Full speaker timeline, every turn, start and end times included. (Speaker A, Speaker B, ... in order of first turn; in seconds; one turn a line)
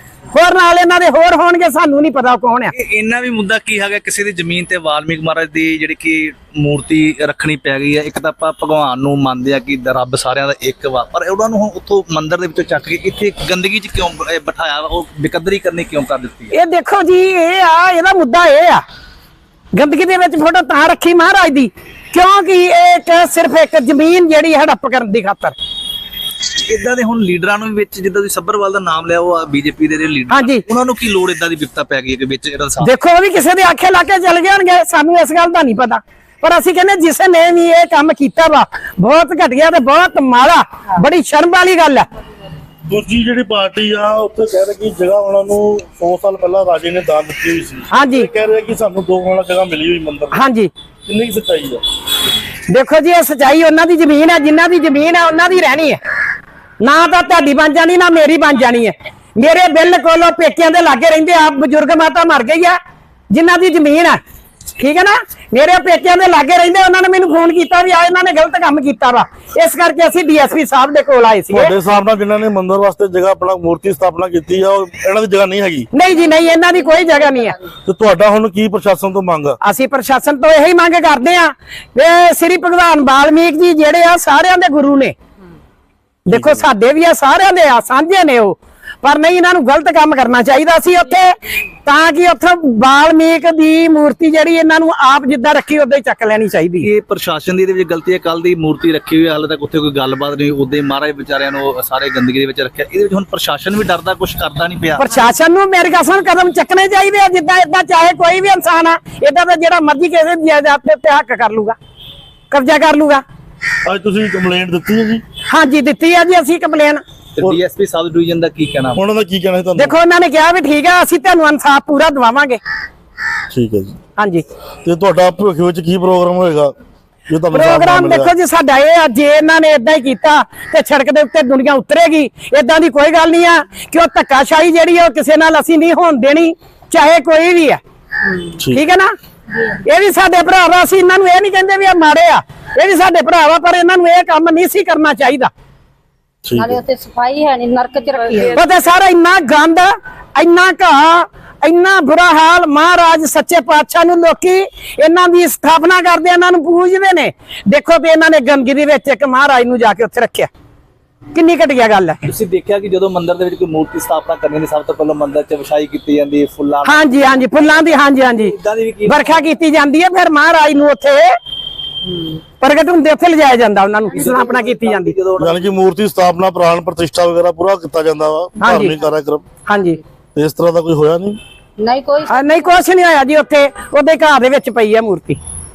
Speaker A: 0.3-2.7
Speaker B: 2.7-16.6
Speaker A: 16.5-18.8
Speaker A: 19.8-25.6
Speaker B: 26.4-32.9
Speaker A: 30.3-30.6
Speaker A: 32.8-42.1
Speaker C: 42.9-50.4
Speaker A: 47.9-48.3
Speaker A: 50.3-50.7
Speaker C: 51.1-51.8
Speaker A: 52.7-56.0
Speaker A: 56.8-62.8
Speaker A: 63.3-64.2
Speaker A: 64.8-71.7
Speaker C: 71.5-75.9
Speaker A: 75.9-77.6
Speaker C: 77.8-79.6
Speaker A: 79.6-85.2
Speaker A: 86.3-96.9
Speaker B: 96.8-105.1
Speaker A: 105.0-111.8
Speaker A: 112.5-113.2
Speaker C: 113.8-115.2
Speaker A: 115.5-117.0
Speaker B: 117.4-119.0
Speaker C: 119.0-120.0
Speaker A: 119.8-122.6
Speaker C: 123.5-124.0
Speaker A: 124.2-124.4
Speaker C: 124.8-126.7
Speaker C: 127.3-128.3
Speaker A: 127.5-137.8
Speaker A: 138.7-139.1
Speaker A: 139.8-145.5
Speaker C: 146.4-146.8
Speaker D: 146.6-148.6
Speaker A: 148.5-160.5
Speaker A: 161.3-162.2
Speaker B: 162.2-169.5
Speaker A: 166.8-168.6
Speaker A: 169.1-171.3
Speaker A: 172.6-175.1
Speaker B: 174.1-175.8
Speaker C: 175.4-179.4
Speaker A: 178.6-179.0
Speaker A: 179.7-180.0
Speaker C: 180.3-181.4
Speaker D: 181.8-182.8
Speaker A: 182.3-185.4